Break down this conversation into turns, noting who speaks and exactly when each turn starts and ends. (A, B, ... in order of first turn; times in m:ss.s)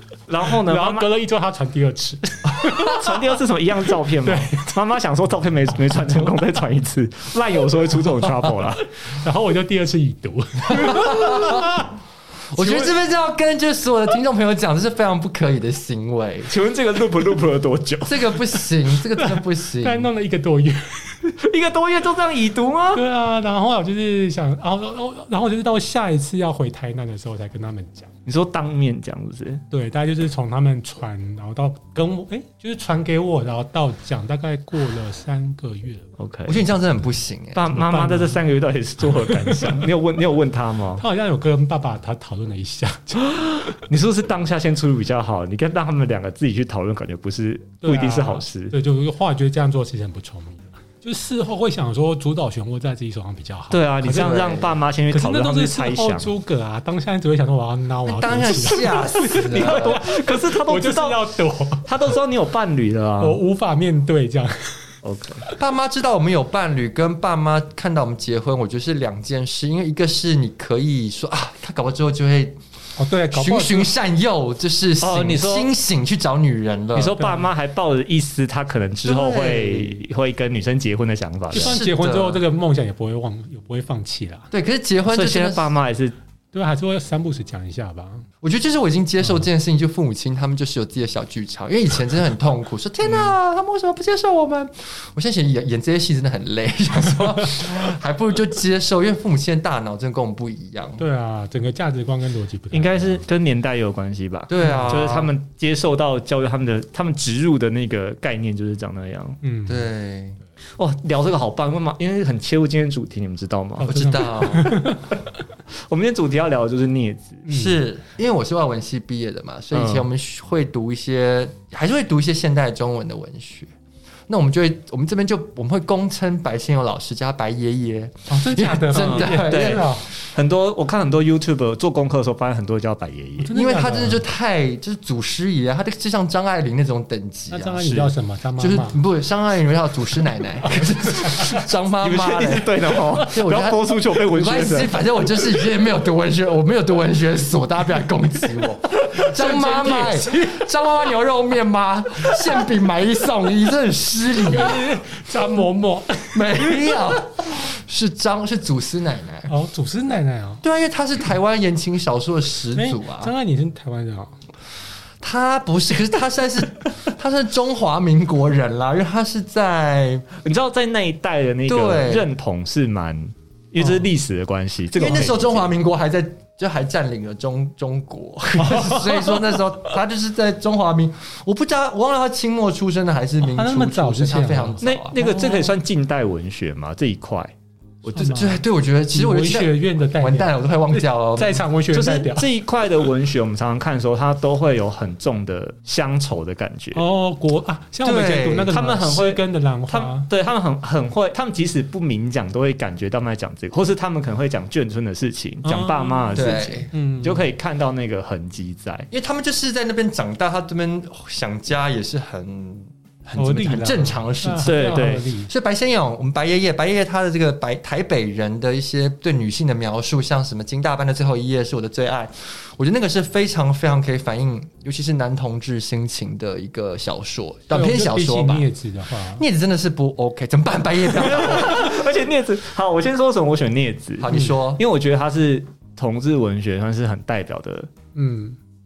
0:00.3-0:01.1 A
0:00.5-0:03.2 B
0:02.6-0:08.8 A
0:04.2-0:04.7 B
0:05.9-0:06.3 B
0:09.0-0:11.9 B
0:10.7-0:11.8 C
0:12.5-0:16.5 C
0:16.5-0:18.4 A
0:18.0-0:20.1 C
0:19.2-0:21.2 B
0:21.4-0:23.0 A
0:22.9-0:28.1 B
0:28.2-0:29.6 A
0:29.7-0:36.1 B
0:36.2-0:36.6 A
0:36.4-0:37.7 C
0:37.5-0:41.0 A
0:37.7-0:38.4 B
0:39.2-0:39.9 B
0:41.0-0:43.4 B
0:43.4-0:48.8 A
0:47.8-0:54.4 B
0:53.7-0:56.3 A
0:54.1-0:54.8 C
0:55.1-1:01.9 B
0:58.1-1:00.0 C
0:58.9-1:01.2 A
1:01.8-1:03.4 A
1:03.2-1:04.9 B
1:05.0-1:05.4 A
1:05.6-1:12.6 C
1:13.0-1:13.9 B
1:13.3-1:17.3 C
1:15.0-1:15.7 A
1:16.9-1:21.8 A
1:19.0-1:20.0 C
1:21.5-1:24.5 B
1:21.5-1:22.4 C
1:24.5-1:25.7 C
1:25.1-1:26.2 A
1:26.5-1:28.2 B
1:28.4-1:41.0 C
1:41.0-1:43.2 B
1:42.7-1:49.4 A
1:44.5-1:45.3 C
1:44.6-1:44.9 B
1:49.4-1:49.9 B
1:49.7-1:50.4 C
1:50.8-1:54.2 A
1:53.8-1:55.1 B
1:53.8-1:54.8 C
1:55.9-1:57.4 A
1:57.4-1:57.8 B
1:57.5-2:03.7 C
1:59.7-2:00.0 A
2:04.3-2:10.0 C
2:08.3-2:10.1 B
2:08.9-2:13.5 A
2:13.4-2:14.2 B
2:13.5-2:17.9 C
2:17.5-2:19.0 B
2:17.8-2:18.1 A
2:18.6-2:34.9 C
2:20.8-2:21.5 B
2:22.0-2:25.0 A
2:28.9-2:30.7 B
2:32.3-2:32.7 B
2:34.4-2:37.2 B
2:36.3-2:39.5 C
2:39.5-2:40.6 B
2:40.6-2:43.3 C
2:42.7-2:44.4 B
2:45.2-2:50.2 C
2:50.4-2:55.7 A
2:51.7-2:52.3 C
2:53.8-2:54.1 B
2:55.0-3:05.2 C
2:58.6-2:59.5 B
3:03.4-3:05.8 B
3:04.8-3:07.5 A
3:08.1-3:12.5 B
3:08.2-3:11.6 C
3:11.9-3:17.0 A
3:16.9-3:20.3 B
3:18.0-3:18.7 C
3:18.7-3:29.1 A
3:25.6-3:27.4 B
3:26.3-3:26.9 C
3:29.1-3:48.7 C
3:33.4-3:35.5 B
3:34.6-3:35.3 A
3:47.7-3:49.4 B
3:49.4-3:51.9 C
3:51.1-3:57.9 A
3:54.2-3:54.8 C
3:58.1-3:58.6 B